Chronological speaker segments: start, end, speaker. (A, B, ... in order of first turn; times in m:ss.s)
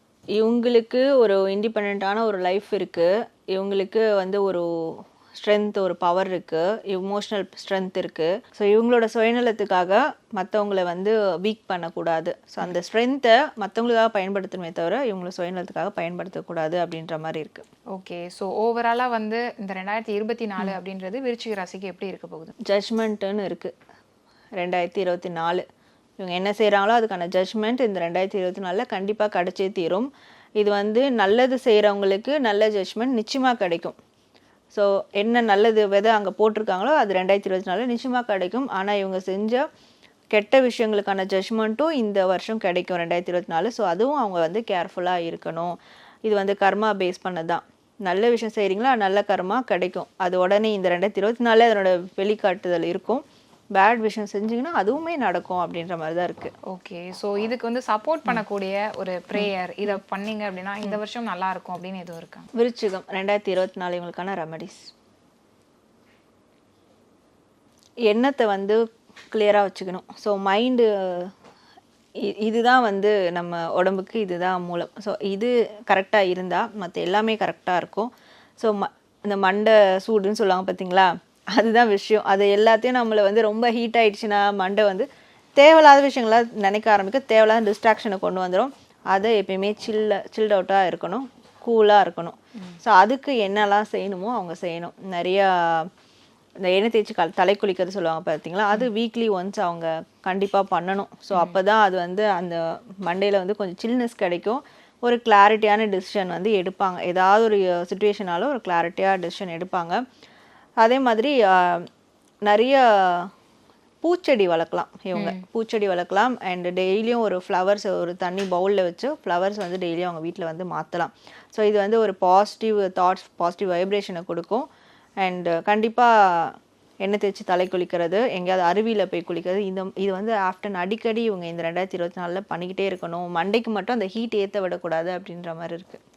0:00.4-0:17.6 A
0:17.9-0:22.5 B
0:22.6-0:23.7 A
0:24.6-0:25.6 A
0:26.2-0:34.0 A
0:34.7-0:39.7 A
0:40.3-0:53.2 A
0:53.7-0:56.5 A
0:56.7-1:02.5 B
1:02.5-1:04.9 A
1:08.1-1:11.3 A
1:12.2-1:35.9 A
1:36.6-1:50.0 A
1:41.3-1:41.6 B
1:50.8-1:51.9 A
1:52.4-1:53.3 A
1:54.0-2:04.7 A
1:55.2-1:55.4 B
2:05.2-2:16.0 A